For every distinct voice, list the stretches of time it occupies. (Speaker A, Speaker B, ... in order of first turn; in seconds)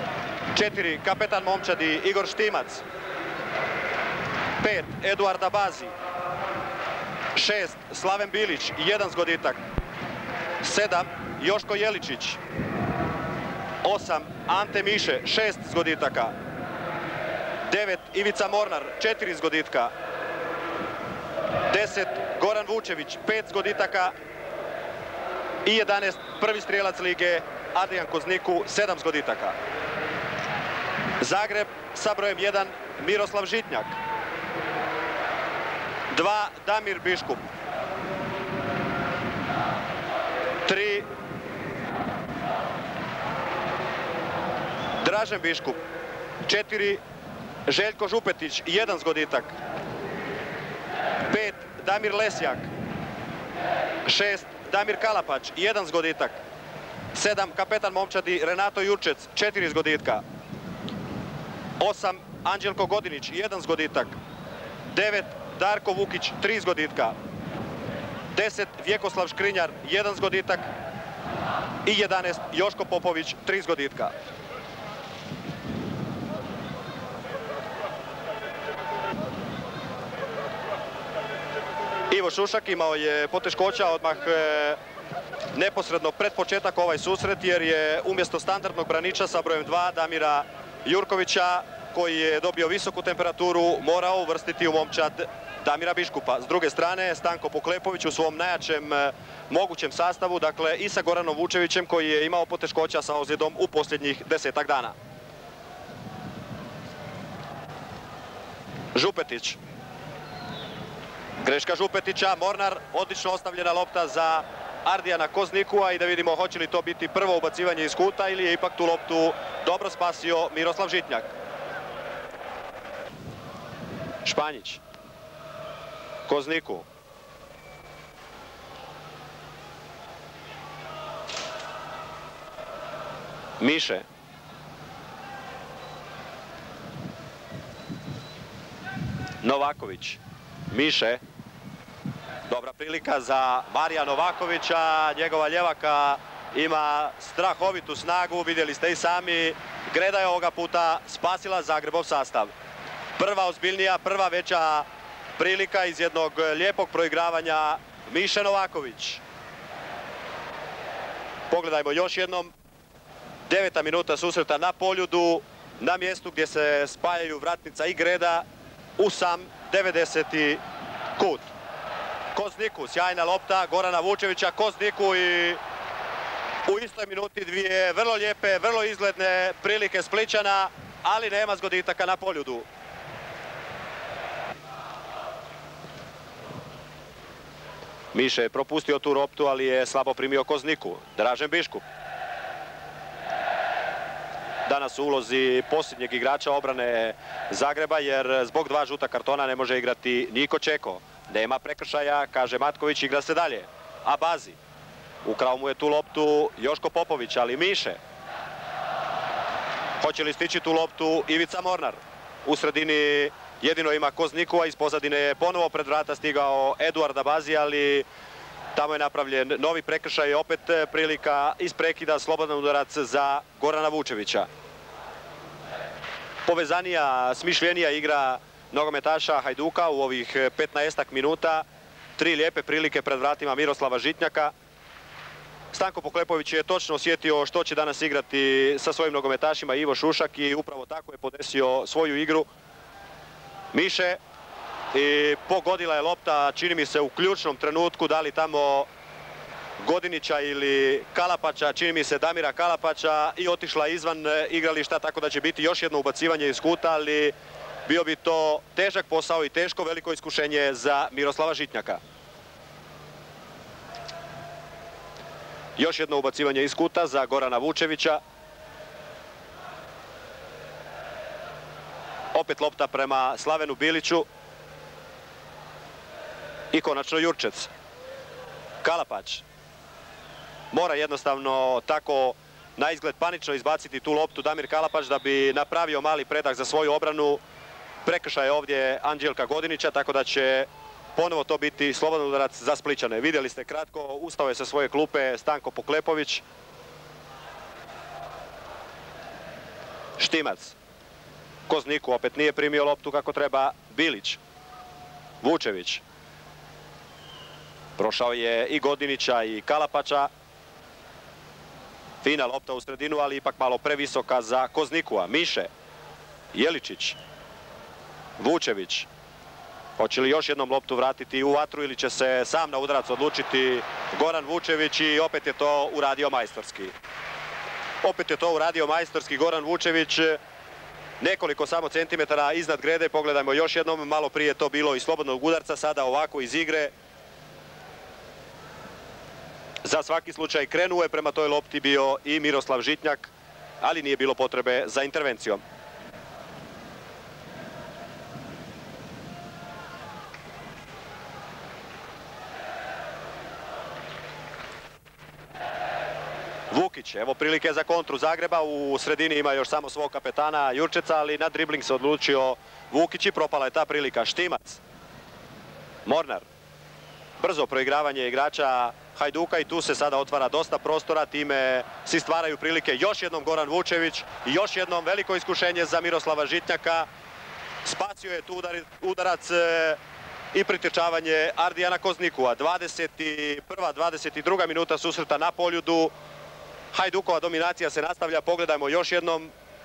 Speaker A: 0.5-2.8, 4.6-5.9, 7.3-9.6, 10.6-12.4, 13.8-16.3, 17.6-19.9, 21.7-24.1, 25.6-29.6, 31.2-34.0, 36.1-37.5, 40.7-41.1, 45.0-45.8, 46.5-47.0, 47.7-49.6, 51.3-52.7, 54.0-56.4, 57.1-60.2, 61.8-64.2, 64.9-67.2, 68.3-70.7, 71.8-74.1, 82.1-84.8, 85.5-105.0, 108.9-109.6, 111.4-121.3, 124.2-124.8, 126.3-126.9, 133.6-134.1, 139.4-141.2, 142.5-152.5, 153.2-154.9, 155.4-159.2, 161.5-162.5, 163.5-168.5, 169.0-170.6, 171.2-171.5, 172.3-175.6, 176.7-182.7, 188.1-191.8, 194.7-204.6, 205.2-208.0, 210.0-218.1, 218.8-224.5, 226.5-231.7, 232.2-234.5, 235.7-242.5, 243.7-244.2, 244.9-248.9, 249.8-257.3, 257.9-262.0, 265.8-268.2, 272.3-274.3, 276.7-277.7, 278.8-279.4, 280.7-287.4, 288.1-296.4, 300.2-300.8, 301.7-304.4, 305.4-306.0, 308.0-310.3, 312.2-315.7, 316.5-317.2, 318.4-319.1, 320.0-326.9, 328.0-330.4, 331.2-336.9, 339.9-345.6, 356.7-364.8, 366.1-366.5, 367.4-377.1, 377.8-380.0, 380.5-386.1, 386.9-389.5